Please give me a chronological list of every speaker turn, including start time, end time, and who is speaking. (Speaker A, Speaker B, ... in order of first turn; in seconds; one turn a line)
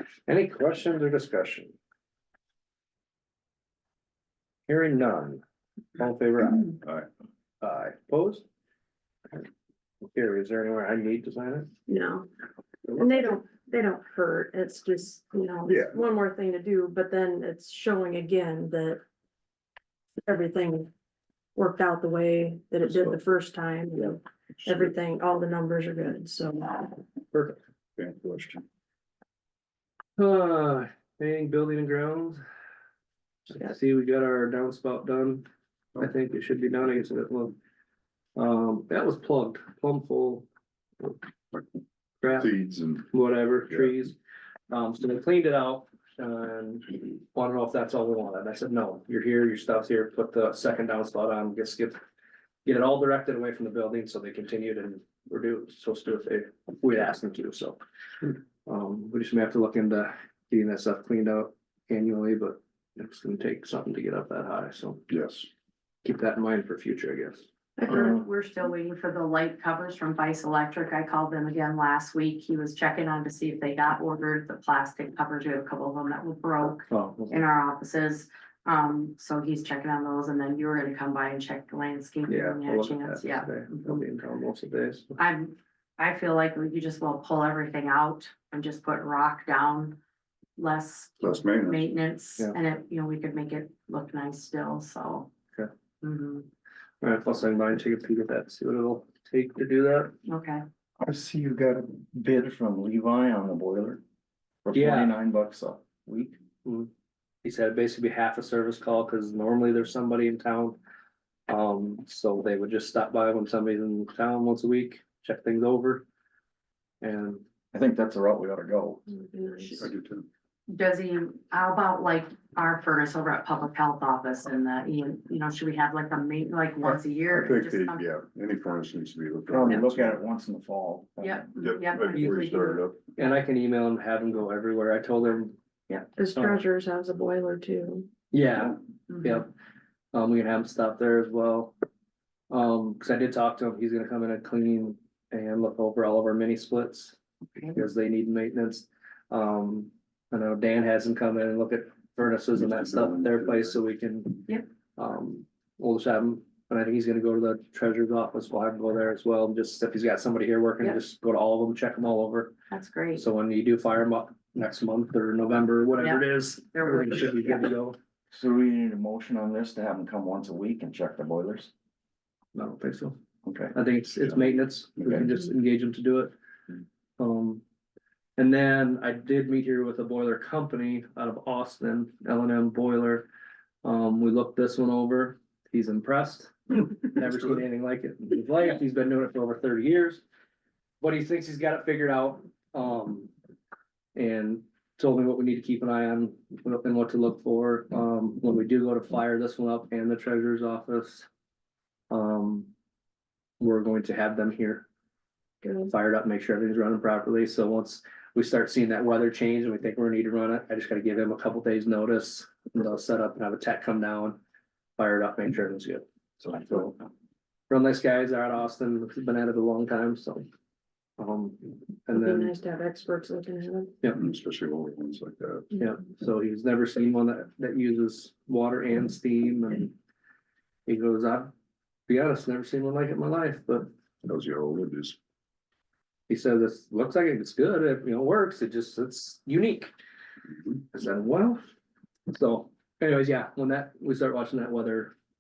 Speaker A: 0.3-1.8
Speaker A: 4.7-5.4
Speaker A: 6.0-6.8
Speaker A: 7.6-8.4
Speaker A: 10.0-11.7
Speaker B: 11.9-12.3
Speaker B: 12.9-19.0
Speaker C: 15.7-16.0
Speaker B: 20.2-20.9
Speaker B: 21.6-27.0
Speaker C: 22.8-23.2
Speaker C: 24.6-24.9
Speaker A: 27.3-27.6
Speaker C: 28.0-28.7
Speaker A: 30.2-32.4
Speaker A: 33.5-35.5
Speaker A: 36.0-37.5
Speaker A: 38.4-40.5
Speaker A: 42.2-42.5
Speaker C: 42.3-43.1
Speaker A: 43.1-44.2
Speaker C: 43.7-43.9
Speaker A: 44.7-52.0
Speaker A: 52.6-57.8
Speaker A: 58.6-65.0
Speaker C: 65.1-65.5
Speaker A: 66.0-67.5
Speaker D: 67.8-84.0
Speaker A: 76.9-77.4
Speaker A: 82.3-85.2
Speaker D: 85.2-90.0
Speaker D: 90.6-95.3
Speaker C: 91.2-91.9
Speaker D: 96.0-96.5
Speaker A: 97.0-100.1
Speaker D: 100.3-100.6
Speaker E: 101.0-104.0
Speaker E: 104.7-106.4
Speaker A: 104.7-105.1
Speaker A: 106.7-106.9
Speaker A: 107.4-110.8
Speaker A: 111.5-116.0
Speaker A: 117.0-117.4
Speaker E: 117.7-119.1
Speaker B: 119.1-119.9
Speaker C: 119.8-120.3
Speaker D: 120.7-128.0
Speaker C: 127.3-130.1
Speaker E: 129.5-131.7
Speaker D: 131.2-132.8
Speaker C: 131.6-133.0
Speaker A: 133.2-135.6
Speaker B: 136.2-138.1
Speaker A: 136.3-136.6
Speaker A: 138.3-139.5
Speaker A: 140.1-141.7
Speaker A: 142.5-147.2
Speaker A: 147.7-162.5
Speaker C: 152.6-153.8
Speaker D: 162.7-163.2
Speaker A: 163.2-168.0
Speaker D: 166.0-167.5
Speaker E: 168.3-171.7
Speaker A: 172.6-173.2
Speaker E: 173.4-173.7
Speaker A: 173.7-176.3
Speaker A: 177.2-177.6
Speaker A: 178.4-183.3
Speaker A: 183.8-190.2
Speaker A: 191.0-193.3
Speaker A: 194.2-201.3
Speaker A: 202.1-202.7
Speaker A: 203.6-204.9
Speaker B: 205.6-205.9
Speaker A: 205.9-214.4
Speaker A: 215.0-216.9
Speaker A: 217.7-220.5
Speaker A: 221.2-222.5
Speaker B: 222.1-224.0
Speaker C: 224.1-225.7
Speaker A: 225.7-229.9
Speaker A: 230.9-231.5
Speaker A: 232.1-233.9
Speaker C: 234.2-235.2
Speaker A: 236.3-239.9
Speaker A: 240.9-241.6
Speaker A: 242.3-245.1